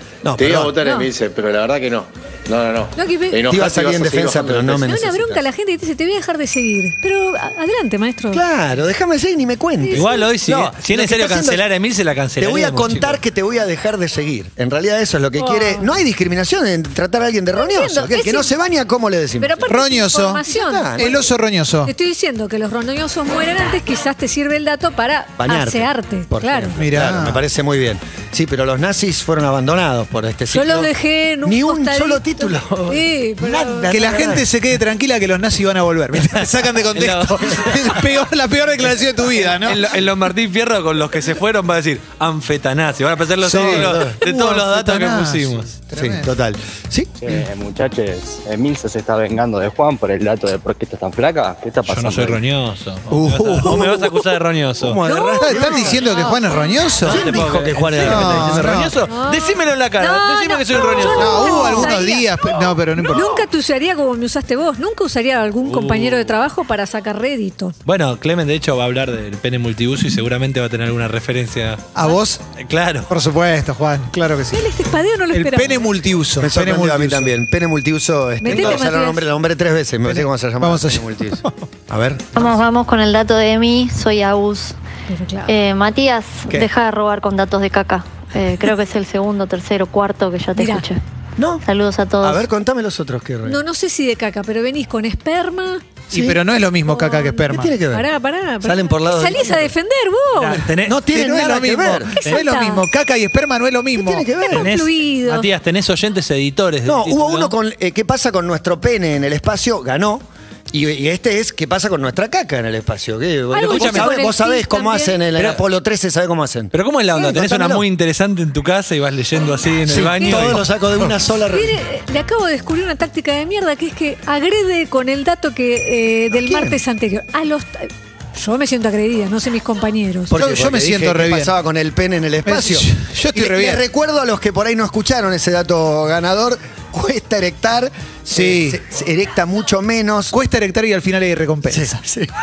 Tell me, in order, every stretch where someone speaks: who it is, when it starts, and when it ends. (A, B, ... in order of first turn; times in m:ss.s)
0:00.2-0:00.8 A
0:00.4-0:04.9 B
0:00.8-0:01.1 C
0:03.0-0:03.4 C
0:03.5-0:05.4 A
0:04.8-0:08.4 C
0:08.3-0:11.6 A
0:09.8-0:10.3 C
0:09.9-0:13.2 D
0:12.4-0:19.7 A
0:15.4-0:15.9 C
0:17.6-0:18.5 C
0:19.4-0:21.2 C
0:19.7-0:20.4 E
0:20.5-0:21.1 A
0:21.0-0:21.9 E
0:21.8-0:26.8 C
0:25.4-0:30.9 A
0:26.8-0:27.4 E
0:30.5-0:34.2 C
0:31.4-0:34.4 A
0:33.9-0:39.9 E
0:36.9-0:38.1 D
0:39.5-0:45.7 D
0:43.4-0:44.2 A
0:43.5-0:46.4 E
0:46.0-0:47.4 A
0:47.2-0:52.4 F
0:51.8-0:55.0 D
0:53.1-0:53.8 E
0:53.6-0:54.3 A
0:54.8-0:56.3 A
0:55.0-0:56.4 C
0:55.4-0:57.3 E
0:57.0-1:01.9 D
0:57.1-0:58.9 A
0:58.0-0:58.9 E
0:59.1-1:02.4 C
1:01.1-1:03.4 E
1:03.0-1:07.8 C
1:05.6-1:06.4 D
1:07.9-1:11.9 D
1:12.0-1:12.4 E
1:12.6-1:13.1 D
1:13.1-1:17.4 E
1:14.5-1:15.9 C
1:16.4-1:22.5 A
1:18.4-1:19.2 C
1:18.5-1:18.8 E
1:20.0-1:21.6 E
1:22.4-1:24.8 G
1:25.1-1:25.5 C
1:25.5-1:31.0 G
1:30.6-1:30.9 C
1:31.4-1:31.6 A
1:31.6-1:32.5 G
1:32.2-1:33.6 A
1:33.4-1:35.8 C
1:36.1-1:36.4 A
1:36.1-1:37.8 E
1:36.9-1:40.7 C
1:37.5-1:38.1 A
1:38.6-1:39.7 A
1:40.4-1:41.1 D
1:40.9-1:42.1 A
1:41.0-1:44.3 E
1:42.1-1:42.8 C
1:44.0-1:44.7 A
1:44.4-1:45.5 C
1:44.5-1:47.5 D
1:46.9-1:57.8 A
1:53.5-1:55.2 C
1:53.6-1:54.2 D
1:55.4-1:55.6 D
1:56.7-2:00.7 D
1:59.9-2:01.8 A
2:00.2-2:00.5 C
2:01.5-2:10.3 C
2:06.3-2:06.8 A
2:10.3-2:20.4 A
2:10.3-2:11.5 E
2:12.4-2:13.8 E
2:18.3-2:18.8 E
2:20.3-2:22.0 E
2:21.7-2:22.3 A